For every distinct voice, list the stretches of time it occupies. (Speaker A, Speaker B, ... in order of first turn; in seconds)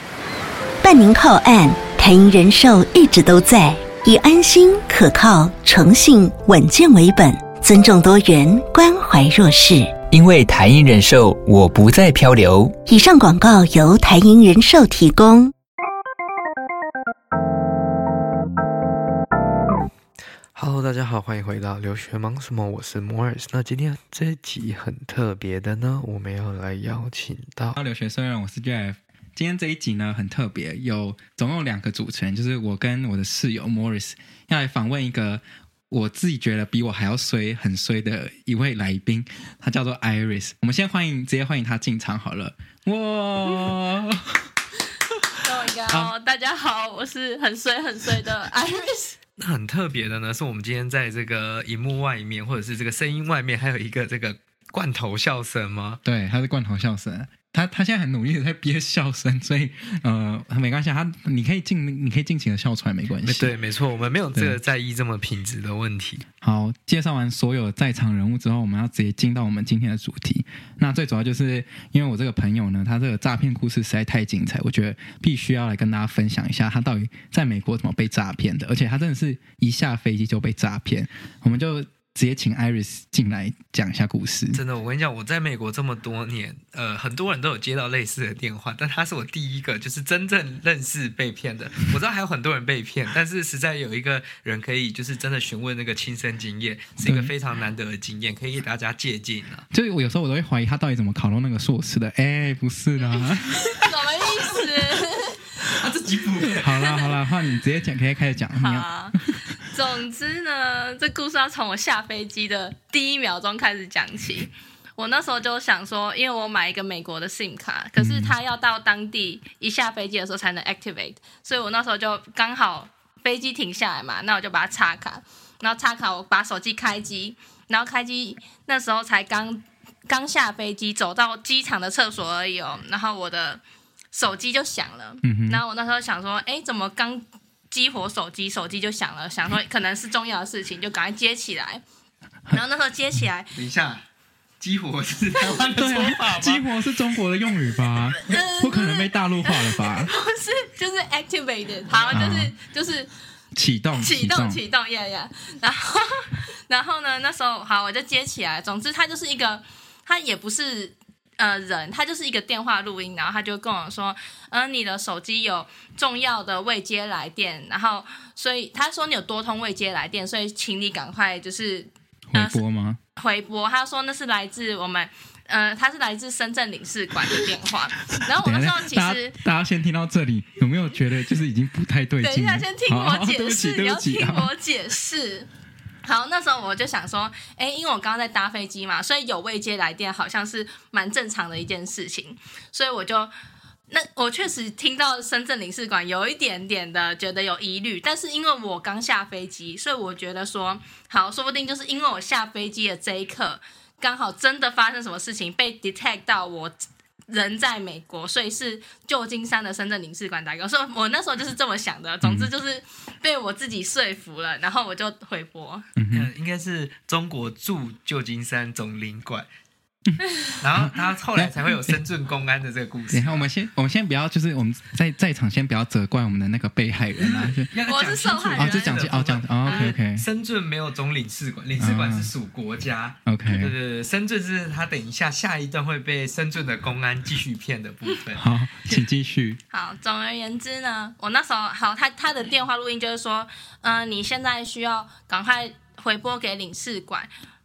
Speaker A: 0.8-10.0, 12.9-15.5
Speaker B: 10.1-12.8
Speaker C: 20.6-27.8, 49.4-56.0, 63.2-66.2, 84.5-99.7, 105.6-107.0, 143.6-144.0, 144.6-146.7, 216.1-219.5, 220.6-223.5, 227.2-239.1
Speaker D: 27.7-44.5, 56.0-63.5, 66.4-84.6, 97.0-97.3, 99.7-103.7, 106.5-108.9, 118.0-118.3, 135.2-135.6, 145.7-150.1, 152.1-152.5, 153.6-154.6, 172.3-173.0, 178.3-184.5, 212.2-212.5, 216.0-216.3, 220.8-222.0, 223.1-227.7, 228.6-230.2, 231.8-232.3, 233.2-233.7, 238.4-239.6
Speaker E: 45.4-49.2, 103.1-105.5, 108.6-133.6, 134.1-141.8, 142.5-143.5, 148.2-153.1, 153.9-172.6, 173.2-179.4, 182.2-185.5, 186.0-193.3, 193.9-206.8, 207.3-215.9, 227.8-229.1, 229.6-229.9, 239.7-247.3